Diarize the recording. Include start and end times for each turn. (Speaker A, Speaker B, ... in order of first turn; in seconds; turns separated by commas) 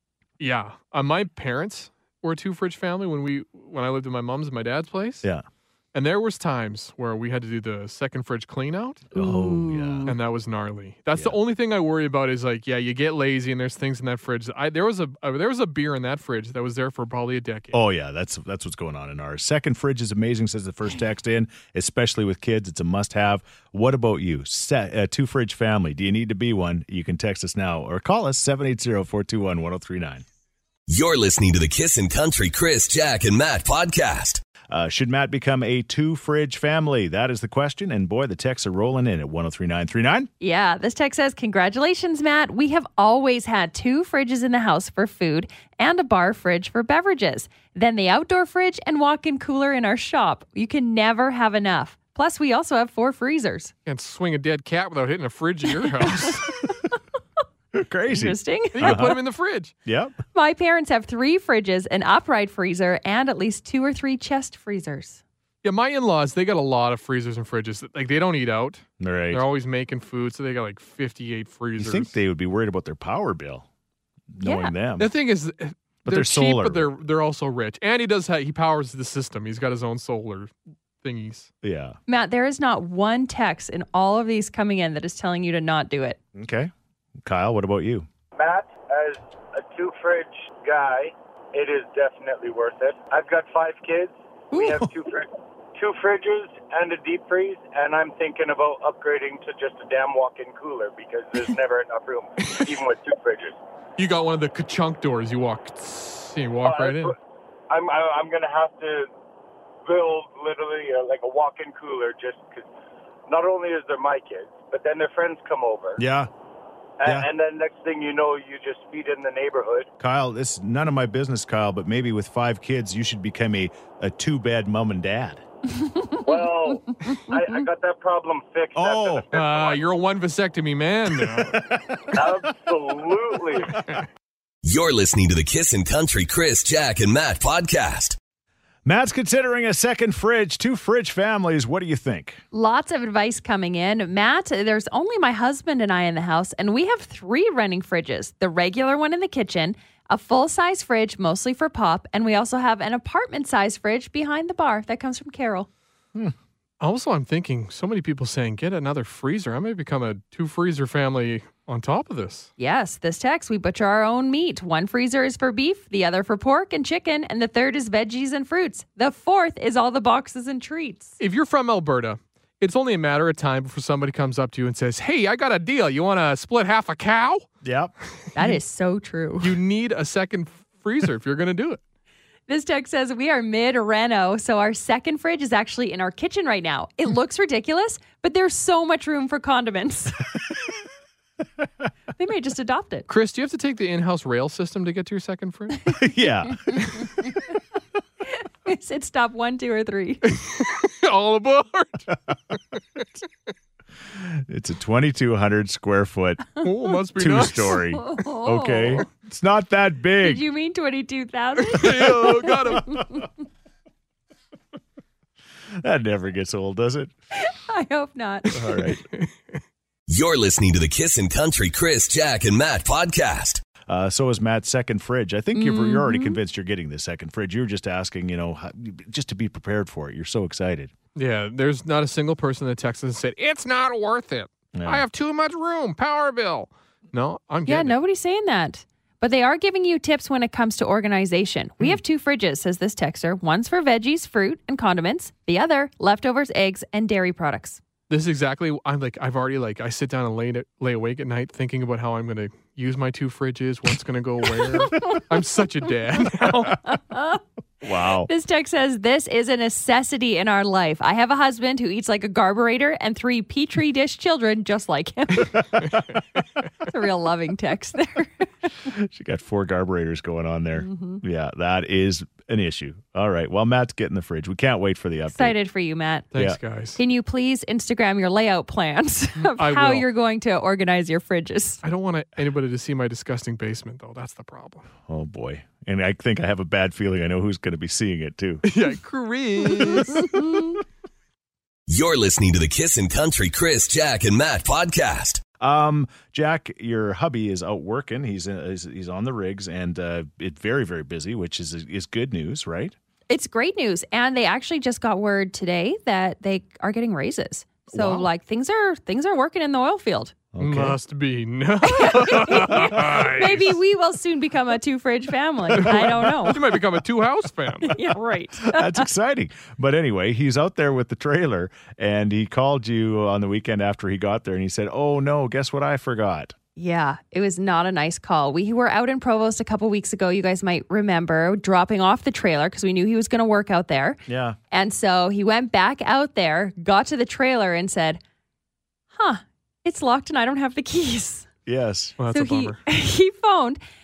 Speaker A: 0.4-5.2, Speaker A: 5.9-9.1, Speaker B: 9.1-10.1, Speaker C: 9.2-10.2, Speaker A: 10.1-17.8, Speaker B: 17.7-30.2, Speaker D: 30.9-34.4, Speaker B: 34.7-40.3, Speaker C: 40.4-53.7, Speaker A: 53.9-56.5, Speaker B: 57.7-59.2, Speaker C: 58.1-59.1, Speaker A: 58.7-59.7, Speaker B: 59.8-60.1, Speaker C: 60.3-65.2, Speaker A: 65.6-72.1, Speaker B: 69.0-69.4, Speaker B: 71.8-73.7, Speaker B: 74.3-75.1, Speaker C: 74.4-74.7, Speaker A: 75.0-81.5, Speaker B: 76.0-77.0, Speaker B: 81.6-82.0, Speaker C: 82.1-86.2, Speaker B: 86.3-86.7, Speaker B: 87.2-88.0, Speaker E: 88.4-103.6, Speaker C: 94.5-94.8, Speaker A: 104.0-107.1, Speaker E: 106.6-107.1, Speaker E: 107.7-109.1, Speaker E: 109.8-112.7, Speaker E: 113.3-116.0, Speaker B: 116.0-116.3, Speaker E: 117.0-119.9, Speaker B: 117.0-117.3, Speaker B: 120.0-125.4, Speaker C: 125.8-127.3, Speaker E: 126.1-129.8, Speaker B: 128.7-129.2, Speaker A: 129.3-131.7, Speaker B: 131.3-132.4, Speaker E: 132.1-133.8, Speaker D: 134.6-138.2, Speaker B: 138.8-142.4, Speaker C: 142.5-155.7, Speaker A: 156.8-162.5, Speaker C: 162.6-171.2, Speaker A: 171.2-177.4, Speaker B: 177.6-177.9, Speaker C: 178.3-179.6, Speaker A: 179.4-181.8, Speaker C: 182.5-190.3, Speaker C: 192.2-193.1, Speaker A: 193.1-196.0, Speaker B: 195.9-197.1, Speaker C: 196.6-197.6, Speaker C: 198.3-200.4, Speaker A: 200.2-203.0, Speaker B: 204.1-206.6, Speaker A: 206.6-207.8, Speaker B: 207.2-210.4, Speaker C: 207.9-209.0, Speaker C: 210.2-213.3, Speaker A: 211.7-213.1, Speaker B: 215.8-217.1, Speaker C: 217.3-218.6, Speaker B: 218.5-219.0, Speaker A: 218.5-219.6, Speaker D: 220.1-223.7, Speaker B: 223.8-230.9, Speaker C: 225.5-226.4, Speaker A: 231.1-237.9, Speaker B: 234.7-235.0, Speaker C: 237.7-247.8, Speaker A: 248.1-256.8, Speaker C: 254.8-255.2, Speaker C: 256.8-257.4, Speaker B: 257.8-258.3, Speaker C: 258.2-265.9, Speaker B: 265.5-266.2, Speaker C: 266.8-268.5, Speaker B: 268.9-275.6, Speaker C: 270.7-271.2, Speaker C: 275.3-276.3, Speaker A: 276.3-277.0, Speaker B: 276.3-276.6, Speaker C: 276.9-281.8, Speaker A: 279.4-280.1, Speaker A: 281.8-284.9, Speaker B: 285.1-288.6, Speaker A: 288.6-290.5, Speaker C: 290.1-290.7, Speaker D: 291.9-295.4, Speaker B: 295.6-302.9, Speaker C: 303.3-310.3, Speaker B: 307.9-308.2, Speaker B: 310.5-311.0, Speaker A: 310.6-313.8, Speaker C: 311.8-316.8, Speaker A: 315.7-318.1, Speaker C: 317.8-319.1, Speaker B: 318.6-326.5, Speaker C: 326.8-334.2, Speaker B: 334.3-334.6, Speaker C: 334.7-338.2, Speaker C: 339.1-341.5, Speaker B: 341.6-342.1, Speaker A: 342.2-342.8, Speaker C: 342.3-343.8